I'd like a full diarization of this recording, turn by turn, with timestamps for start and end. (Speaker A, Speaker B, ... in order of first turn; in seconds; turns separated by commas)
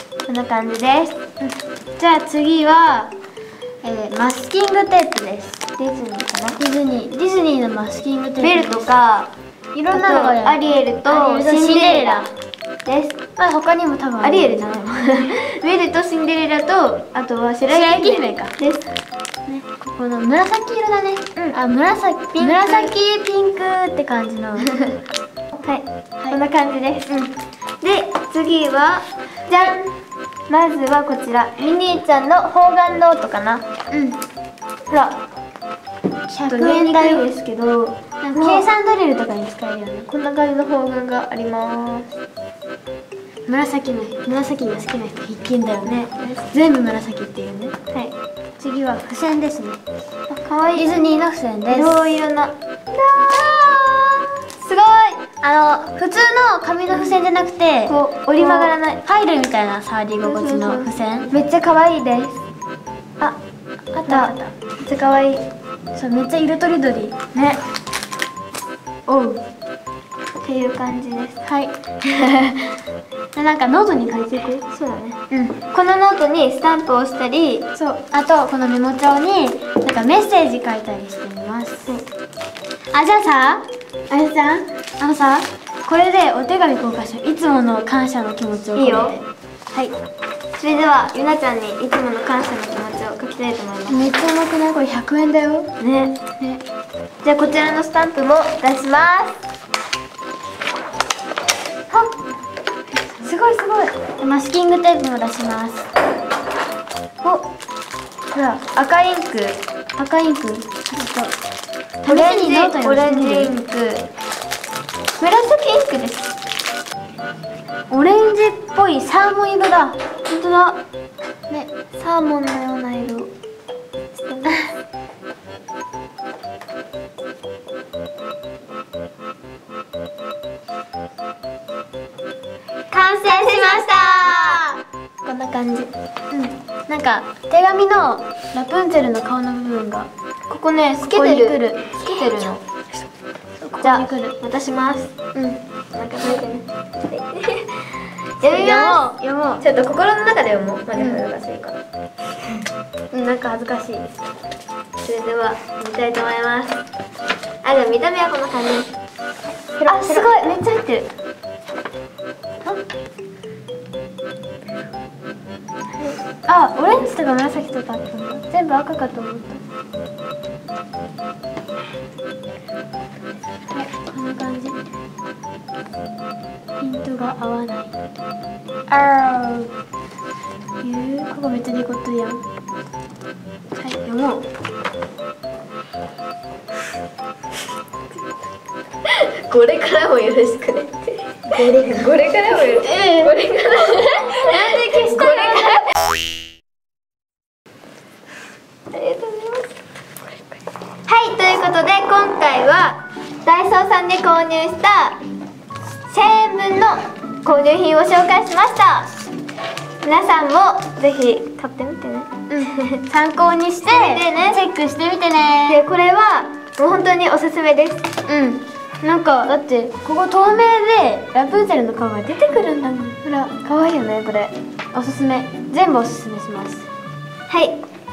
Speaker A: 0.3-1.2, Speaker B: 2.0-3.1, Speaker B: 3.8-5.6, Speaker A: 5.8-6.6, Speaker B: 6.6-8.9, Speaker A: 8.4-9.3, Speaker B: 9.7-12.3, Speaker A: 9.9-12.2, Speaker A: 12.8-13.2, Speaker B: 13.4-14.7, Speaker A: 14.2-18.8, Speaker B: 17.7-18.5, Speaker B: 19.5-24.8, Speaker A: 22.4-22.9, Speaker A: 25.5-27.2, Speaker A: 27.8-29.9, Speaker A: 30.5-33.6, Speaker B: 33.9-34.2, Speaker A: 34.9-35.2, Speaker B: 36.3-37.2, Speaker A: 36.5-38.7, Speaker B: 38.2-40.1, Speaker A: 40.1-42.1, Speaker B: 43.5-47.7, Speaker A: 45.9-46.5, Speaker B: 48.6-49.8, Speaker A: 50.3-50.9, Speaker B: 50.7-52.2, Speaker A: 51.7-55.2, Speaker B: 55.4-61.3, Speaker A: 57.8-59.0, Speaker A: 60.2-62.4, Speaker B: 63.9-64.5, Speaker A: 64.1-65.4, Speaker B: 65.9-67.6, Speaker B: 69.1-69.4, Speaker A: 70.4-71.4, Speaker B: 71.4-72.8, Speaker B: 73.3-74.6, Speaker A: 74.7-77.7, Speaker B: 77.8-81.9, Speaker B: 82.9-89.9, Speaker A: 88.8-89.2, Speaker A: 90.6-94.0, Speaker B: 93.9-95.7, Speaker A: 95.8-96.2, Speaker A: 97.2-99.4, Speaker B: 103.1-105.9, Speaker A: 108.3-109.6, Speaker B: 110.0-111.3, Speaker B: 112.0-113.5, Speaker A: 112.0-114.1, Speaker A: 115.2-116.3, Speaker B: 117.9-120.0, Speaker A: 120.3-120.8, Speaker A: 121.9-123.3, Speaker A: 124.2-124.6, Speaker B: 132.9-134.8, Speaker A: 133.2-134.7, Speaker A: 135.2-135.9, Speaker B: 136.3-140.1, Speaker A: 140.5-142.6, Speaker B: 141.0-142.3, Speaker B: 143.6-144.3, Speaker A: 143.8-145.1, Speaker B: 145.3-145.6, Speaker A: 145.9-151.8, Speaker B: 148.4-149.6, Speaker B: 150.9-151.2, Speaker B: 153.1-154.1, Speaker A: 155.0-156.8, Speaker A: 157.6-158.9, Speaker B: 159.8-160.7, Speaker A: 159.8-161.0, Speaker B: 166.4-169.6, Speaker B: 173.7-174.8, Speaker B: 176.8-177.9, Speaker B: 178.9-179.7, Speaker B: 180.8-182.4, Speaker B: 183.7-184.4, Speaker A: 189.0-195.9, Speaker B: 192.6-195.9, Speaker A: 198.9-199.7, Speaker A: 201.1-205.2, Speaker A: 206.1-209.1, Speaker A: 210.0-213.0, Speaker B: 212.5-215.8, Speaker A: 213.9-214.6, Speaker A: 215.7-218.0, Speaker B: 218.3-223.2, Speaker A: 223.2-224.5, Speaker B: 224.9-226.9, Speaker A: 227.5-227.8